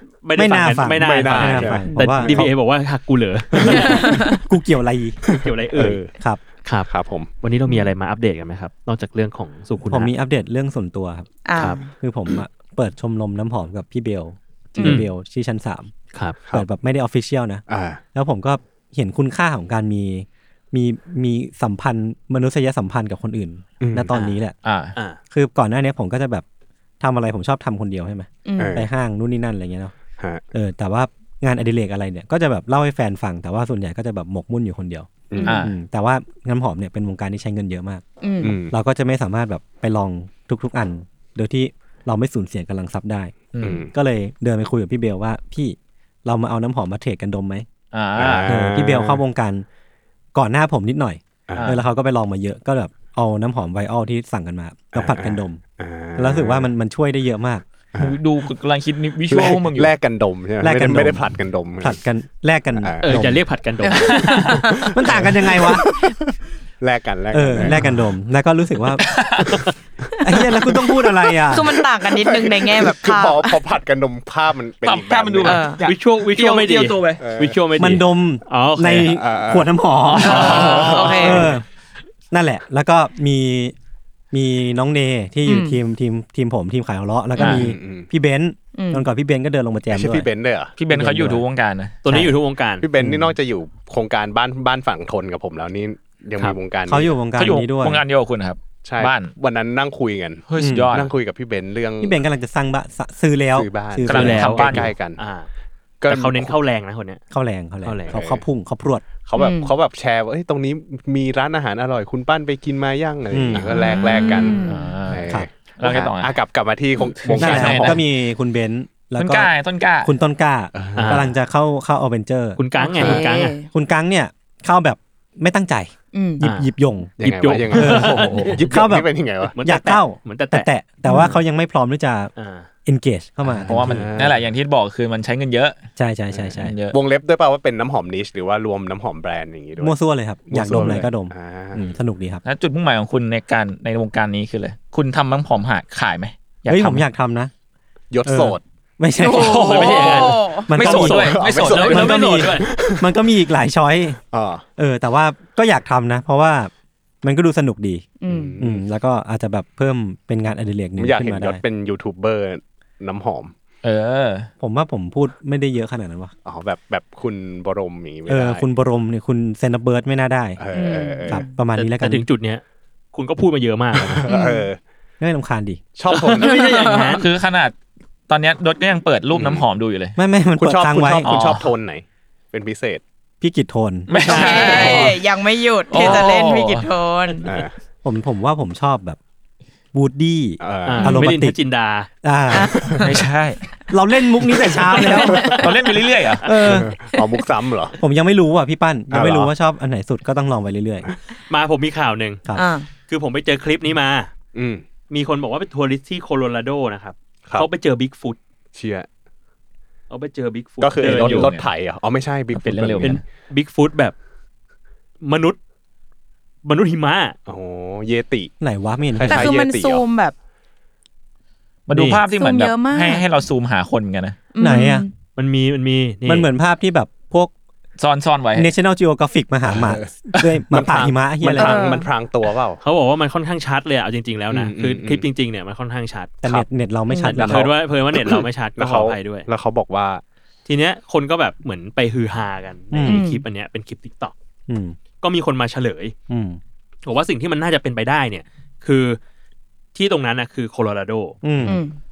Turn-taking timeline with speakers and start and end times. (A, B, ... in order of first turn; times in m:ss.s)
0:00.2-0:04.4 A
0:00.4-0:02.5 B
0:01.0-0:02.4 C
0:03.8-0:04.4 D
0:03.8-0:05.2 B
0:05.4-0:06.0 A
0:05.7-0:06.1 C
0:06.9-0:07.3 C
0:07.4-0:10.1 A
0:09.9-0:15.9 B
0:11.4-0:11.9 D
0:14.8-0:15.1 A
0:16.1-0:16.4 A
0:16.5-0:24.6 B
0:17.7-0:18.0 C
0:23.8-0:24.1 C
0:24.1-0:24.4 A
0:24.6-0:25.0 E
0:25.3-0:26.4 B
0:27.0-0:29.9 B
0:28.4-0:28.8 D
0:28.6-0:28.9 C
0:30.2-0:30.4 C
0:30.5-0:38.0 B
0:35.3-0:35.6 C
0:35.3-0:35.6 D
0:35.4-0:35.7 E
0:38.2-0:38.6 D
0:38.4-0:38.7 C
0:38.7-0:47.7 B
0:43.5-0:43.9 E
0:43.6-0:43.9 C
0:47.9-0:48.5 E
0:48.2-0:49.2 C
0:48.5-0:49.7 B
0:50.3-0:55.6 B
0:51.5-0:51.8 C
0:51.6-0:51.8 E
0:54.9-0:56.7 C
0:56.2-0:57.6 B
0:58.0-0:59.9 E
0:59.3-1:02.0 C
1:00.6-1:03.4 B
1:02.8-1:03.2 C
1:03.0-1:04.6 A
1:03.8-1:04.7 E
1:04.4-1:04.9 D
1:04.7-1:08.0 C
1:04.9-1:05.9 B
1:07.3-1:09.2 B
1:09.0-1:09.6 E
1:10.2-1:11.7 B
1:10.3-1:15.7 C
1:11.4-1:13.6 D
1:14.8-1:17.2 E
1:15.4-1:15.8 D
1:15.8-1:19.2 A
1:17.2-1:17.6 C
1:17.8-1:21.6 B
1:19.0-1:19.7 C
1:20.2-1:21.5 E
1:20.2-1:21.5 D
1:20.3-1:21.5 C
1:22.3-1:23.8 B
1:24.3-1:30.3 B
1:25.4-1:25.8 D
1:27.4-1:27.7 E
1:27.4-1:28.1 C
1:28.7-1:29.1 D
1:29.9-1:30.8 C
1:30.8-1:32.0 E
1:30.9-1:31.4 B
1:32.0-1:32.9 A
1:32.8-1:37.2 C
1:33.0-1:33.4 B
1:36.9-1:38.0 B
1:37.4-1:39.3 E
1:38.8-1:42.2 C
1:40.5-1:41.2 E
1:40.6-1:40.9 B
1:42.0-1:44.8 B
1:43.6-1:45.2 C
1:44.1-1:44.9 E
1:44.1-1:45.5 A
1:46.0-1:46.6 C
1:46.1-1:47.2 A
1:47.3-1:49.0 B
1:47.8-1:48.2 A
1:48.1-1:48.4 C
1:49.3-1:58.0 C
1:49.4-1:49.7 D
1:53.3-1:53.9 B
1:53.7-1:54.9 D
1:54.6-1:56.4 E
1:57.1-1:58.0 E
1:57.3-1:59.5 B
1:59.2-2:00.1 E
2:00.0-2:07.1 B
2:00.8-2:01.3 C
2:01.0-2:01.3 A
2:02.6-2:03.6 A
2:02.8-2:03.7 D
2:06.1-2:06.4 D
2:06.4-2:08.9 A
2:07.2-2:09.6 C
2:07.7-2:09.1 B
2:09.5-2:10.7 A
2:09.6-2:12.3 B
2:11.1-2:11.3 D
2:12.4-2:12.7 A
2:12.9-2:14.1 B
2:13.5-2:14.5 C
2:13.7-2:15.8 E
2:16.0-2:16.7 B
2:16.3-2:20.0 C
2:16.6-2:17.0 E
2:19.8-2:22.4 B
2:20.5-2:22.0 C
2:22.4-2:27.0 E
2:26.7-2:27.5 B
2:28.1-2:28.6 C
2:28.2-2:30.0 B
2:29.2-2:30.8 D
2:29.2-2:32.5 E
2:29.7-2:30.3 A
2:29.7-2:30.3 C
2:30.7-2:34.2 B
2:30.8-2:33.1 C
2:31.6-2:32.7 A
2:34.3-2:34.6 C
2:34.8-2:36.7 B
2:37.2-2:41.6 B
2:38.2-2:38.6 D
2:38.3-2:38.8 C
2:41.0-2:43.5 C
2:43.8-2:44.5 E
2:44.6-2:46.3 B
2:46.4-2:48.6 C
2:48.3-2:50.6 B
2:50.6-2:51.4 C
2:50.7-2:51.5 D
2:51.3-2:52.2 B
2:51.8-2:52.6 A
2:53.1-2:54.2 A
2:54.0-2:54.8 C
2:54.3-2:54.7 D
2:55.2-2:55.8 B
2:56.0-2:56.8 C
2:56.1-2:57.3 A
2:56.4-2:57.2 D
2:57.2-2:57.8 E
2:58.3-3:00.2 E
2:59.3-2:59.7 C
3:00.2-3:01.3 B
3:00.6-3:03.0 C
3:01.2-3:01.7 E
3:03.4-3:05.1 B
3:04.1-3:05.2 E
3:04.2-3:05.1 A
3:04.2-3:07.5 D
3:05.9-3:06.9 E
3:07.4-3:07.7 C
3:08.0-3:09.2 B
3:09.9-3:11.6 B
3:10.6-3:11.3 C
3:10.8-3:12.1 A
3:12.2-3:13.0 B
3:12.5-3:13.0 D
3:12.7-3:13.1 C
3:13.0-3:13.6 E
3:13.9-3:15.6 B
3:14.8-3:15.5 D
3:14.9-3:15.7 A
3:15.2-3:15.6 C
3:15.5-3:16.5 E
3:16.4-3:16.9 B
3:16.6-3:18.0 C
3:18.0-3:21.1 B
3:19.1-3:19.5 C
3:21.5-3:22.4 A
3:22.5-3:22.9 D
3:23.1-3:24.3 A
3:24.6-3:24.8 C
3:25.1-3:28.4 A
3:28.8-3:29.1 C
3:30.1-3:31.5 A
3:30.8-3:33.2 C
3:31.0-3:31.7 E
3:32.5-3:33.2 E
3:33.0-3:34.2 A
3:35.2-3:35.6 A
3:36.6-3:37.4 A
3:37.5-3:38.5 C
3:38.6-3:39.5 B
3:39.2-3:40.0 C
3:39.3-3:40.4 D
3:41.9-3:44.4 E
3:41.9-3:42.2 A
3:42.3-3:43.3 D
3:44.5-3:45.1 D
3:44.6-3:45.1 B
3:45.4-3:46.5 A
3:46.3-3:47.5 B
3:48.0-3:48.7 E
3:48.6-3:51.8 B
3:49.7-3:52.8 C
3:51.5-3:52.1 D
3:52.8-3:56.5 A
3:54.5-3:55.2 C
3:56.4-3:57.8 B
3:57.1-3:57.5 D
3:57.2-3:59.5 A
3:58.2-4:00.2 C
4:00.7-4:04.3 A
4:02.9-4:03.2 B
4:03.1-4:03.4 D
4:04.7-4:05.0 B
4:05.2-4:06.2 A
4:06.3-4:06.6 B
4:07.0-4:09.2 A
4:10.0-4:11.4 A
4:11.4-4:11.8 B
4:11.6-4:12.0 D